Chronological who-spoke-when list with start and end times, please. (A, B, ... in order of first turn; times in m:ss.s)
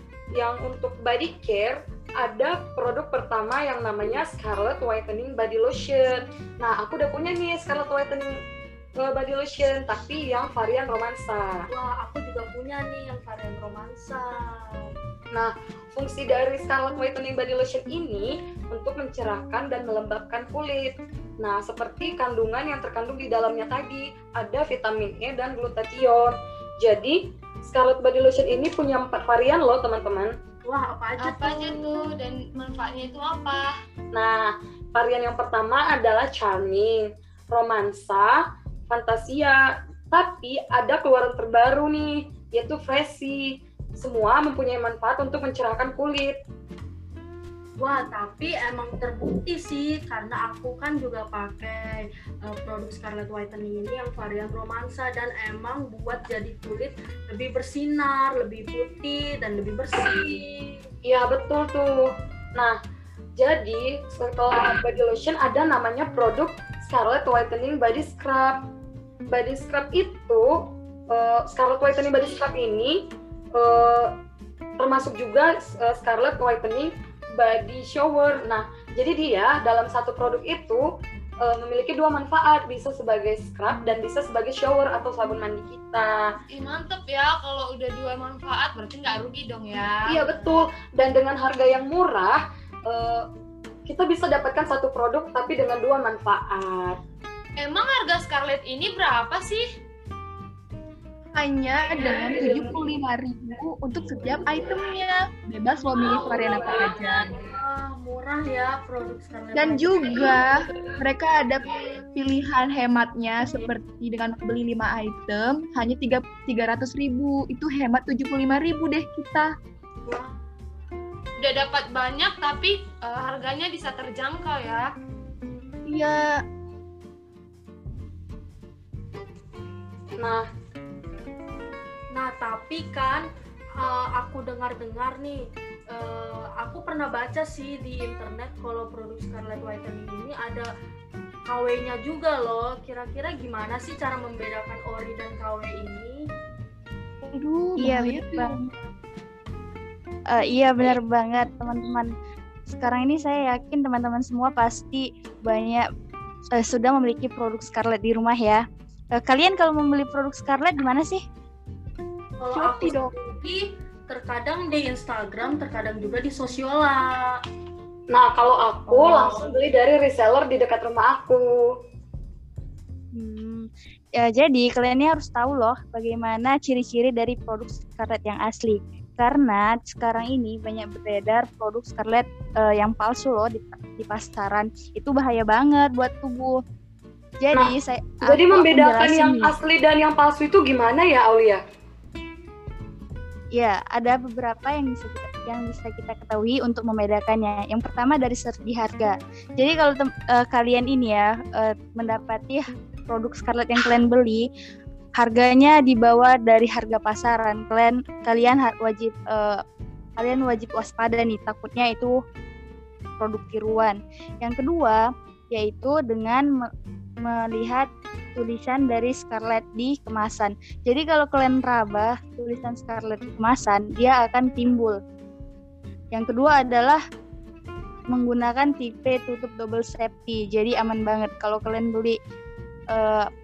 0:00.4-0:08.3 A
0:09.0-0:11.6 A
0:11.7-0:14.9 B
0:15.3-0:30.3 A
0:30.6-0:32.0 B
0:31.2-0:33.7 C
0:34.1-0:38.4 A
0:38.9-0:43.4 A
0:44.0-0:46.4 A
0:47.8-1:00.8 B
1:01.0-1:02.8 A
1:03.4-1:08.6 A
1:09.3-1:10.6 A
1:11.1-1:13.0 A
1:13.6-1:14.1 A
1:14.8-1:20.8 A
1:21.4-1:26.2 A
1:26.5-1:30.2 C
1:30.1-1:33.2 A
1:33.9-1:37.0 A
1:37.6-1:39.6 C
1:41.3-1:47.3 D
1:47.4-1:50.4 B
1:49.5-1:59.5 D
2:00.0-2:00.4 B
2:01.4-2:04.8 C
2:05.8-2:06.4 D
2:10.2-2:10.5 A
2:12.1-2:13.2 B
2:13.8-2:20.7 B
2:21.5-2:26.2 B
2:27.2-2:28.6 D
2:27.8-2:28.6 E
2:30.3-2:32.1 E
2:30.4-2:31.0 C
2:32.7-2:35.8 E
2:36.6-2:38.6 E
2:39.1-2:41.2 E
2:42.4-2:47.4 B
2:42.5-2:43.1 D
2:48.1-2:51.4 A
2:48.9-2:49.4 B
2:53.1-2:53.7 E
2:54.2-3:06.6 E
3:07.4-3:09.6 E
3:08.2-3:11.6 A
3:13.6-3:24.4 E
3:25.2-3:29.6 E
3:30.2-3:32.1 E
3:33.2-3:35.0 E
3:35.5-3:36.6 E
3:37.2-3:45.0 E
3:46.1-3:47.0 E
3:48.1-3:52.2 E
3:52.9-3:53.3 E